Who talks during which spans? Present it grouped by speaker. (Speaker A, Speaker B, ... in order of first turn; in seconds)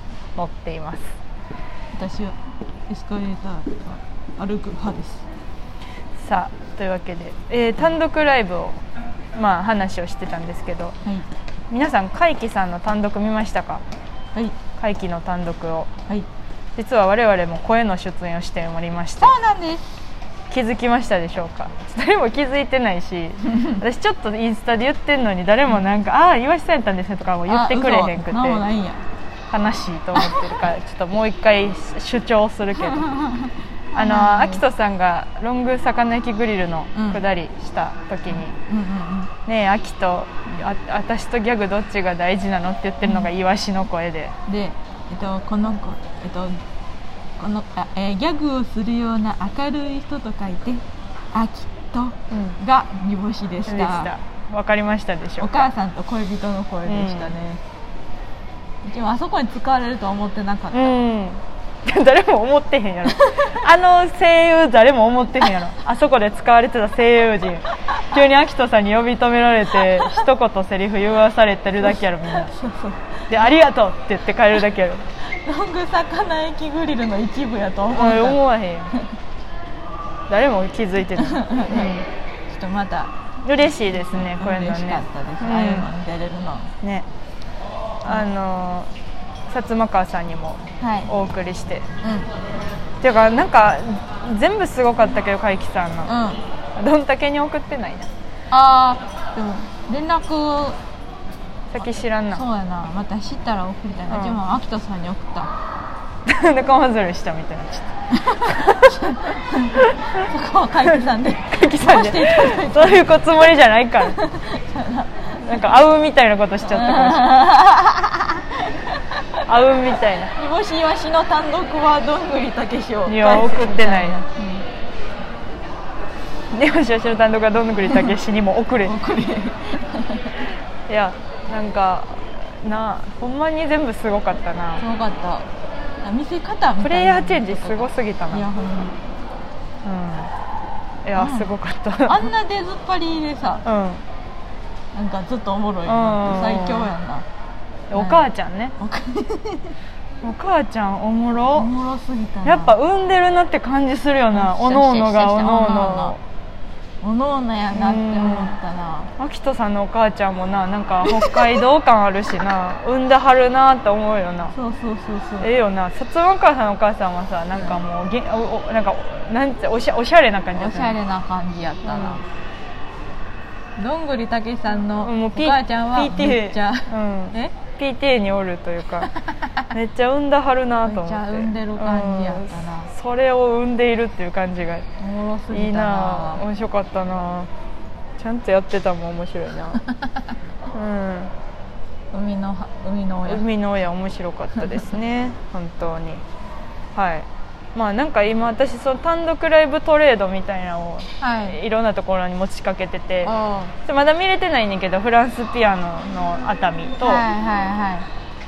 Speaker A: 0.3-1.2, 6.2-8.8, 9.3-10.9, 11.7-13.8, 14.8-15.9, 16.8-19.3, 20.5-28.6, 29.5-33.1, 33.9-38.6, 39.4-44.3, 52.3-52.6, 53.6-55.7, 56.8-57.4, 60.7-72.5, 73.3-75.0, 77.9-78.9, 80.3-82.1, 83.4-85.9, 86.8-87.1, 88.0-88.9, 89.5-91.9, 93.0-96.1, 96.8-98.1, 101.7-102.4, 104.1-104.4, 106.2-107.9, 109.9-110.2, 111.5-114.2, 115.4-117.5, 119.5-120.3, 123.0-124.2, 126.5-128.9, 130.9-134.8, 136.8-138.5, 139.8-140.3, 141.0-142.3, 143.6-144.0, 145.8-146.9, 147.9-148.7, 150.2-151.7, 152.4-156.2, 157.7-158.6, 159.2-164.5, 165.4-170.9, 171.8-172.2, 174.8-179.1, 179.7-184.9, 185.5-187.5, 188.2-189.8, 190.7-191.3, 193.3-196.2, 196.9-203.3, 203.8-207.2
Speaker B: 1.9-2.4, 2.9-5.2, 19.2-19.9, 23.5-23.8, 27.4-29.0, 30.1-30.5, 32.8-34.6, 36.9-37.2, 38.4-39.3, 43.0-43.3, 44.5-46.6, 47.4-54.1, 55.4-57.6, 58.8-60.9, 63.1-63.6, 69.9-70.1, 72.3-73.3, 75.2-78.4, 81.2-81.9, 82.5-83.1, 84.1-86.7, 90.8-91.1, 92.0-92.3, 96.0-96.4, 98.5-100.8, 102.3-105.5, 108.2-113.1, 114.0-115.3, 116.7-119.2, 120.3-124.6, 128.8-130.3, 134.8-135.5, 136.0-139.0, 141.2-141.5, 142.0-143.6, 144.9-147.2, 147.9-149.8, 151.5-152.7, 154.3-156.2, 157.0-159.1, 161.1-161.3, 164.5-165.5, 167.5-167.8, 170.5-172.2, 173.8-177.5, 179.2-179.5, 180.8-182.9, 185.0-186.4, 192.1-193.4, 201.2-201.6, 203.2-203.7, 207.0-208.1